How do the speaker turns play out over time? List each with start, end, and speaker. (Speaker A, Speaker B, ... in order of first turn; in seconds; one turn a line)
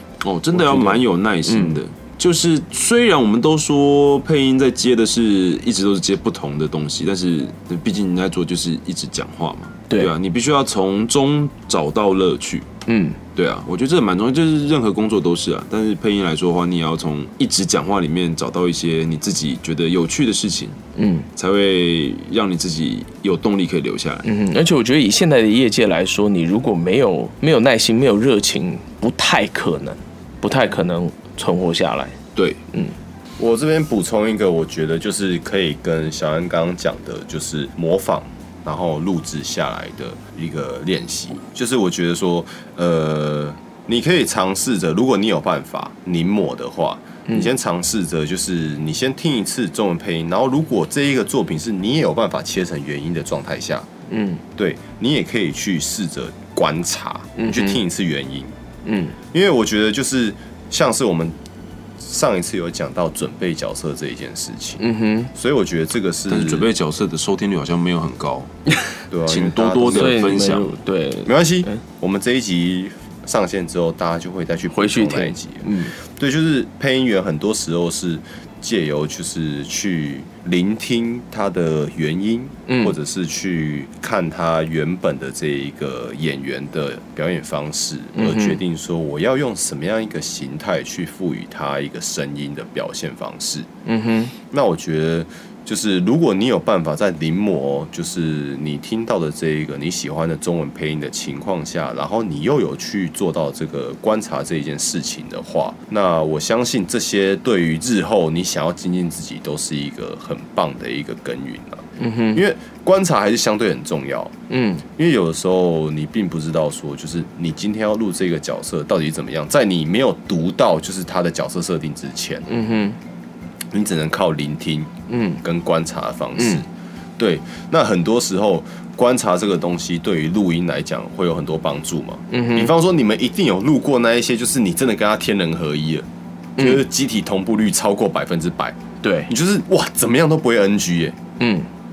Speaker A: 0.2-12.7
Speaker B: 0.5-1.8
Speaker B: 12.9-13.2
Speaker A: 13.3-20.8
Speaker B: 20.9-21.3
Speaker A: 21.4-24.2
Speaker B: 24.2-32.2
Speaker C: 33.4-53.9
Speaker B: 54.1-54.4
Speaker C: 54.5-58.5
Speaker B: 57.4-57.8
Speaker B: 58.9-59.1
Speaker C: 59.3-61.3
Speaker C: 62.0-64.8
Speaker B: 64.8-65.3
Speaker C: 65.3-66.7
Speaker A: 66.3-68.5
Speaker C: 69.1-70.6
Speaker A: 69.3-70.7
Speaker B: 69.9-71.8
Speaker C: 71.2-93.7
Speaker B: 74.7-75.9
Speaker B: 82.7-82.9
Speaker B: 88.1-88.6
Speaker B: 93.8-94.3
Speaker C: 94.5-114.3
Speaker B: 112.0-112.4
Speaker B: 114.5-114.8
Speaker C: 115.0-122.5
Speaker B: 122.5-123.0
Speaker C: 123.7-124.9
Speaker B: 125.1-125.4
Speaker C: 125.4-126.6
Speaker C: 127.2-136.0
Speaker B: 132.3-132.7
Speaker B: 136.6-136.8
Speaker C: 136.6-141.2
Speaker B: 139.0-139.3
Speaker B: 141.4-141.7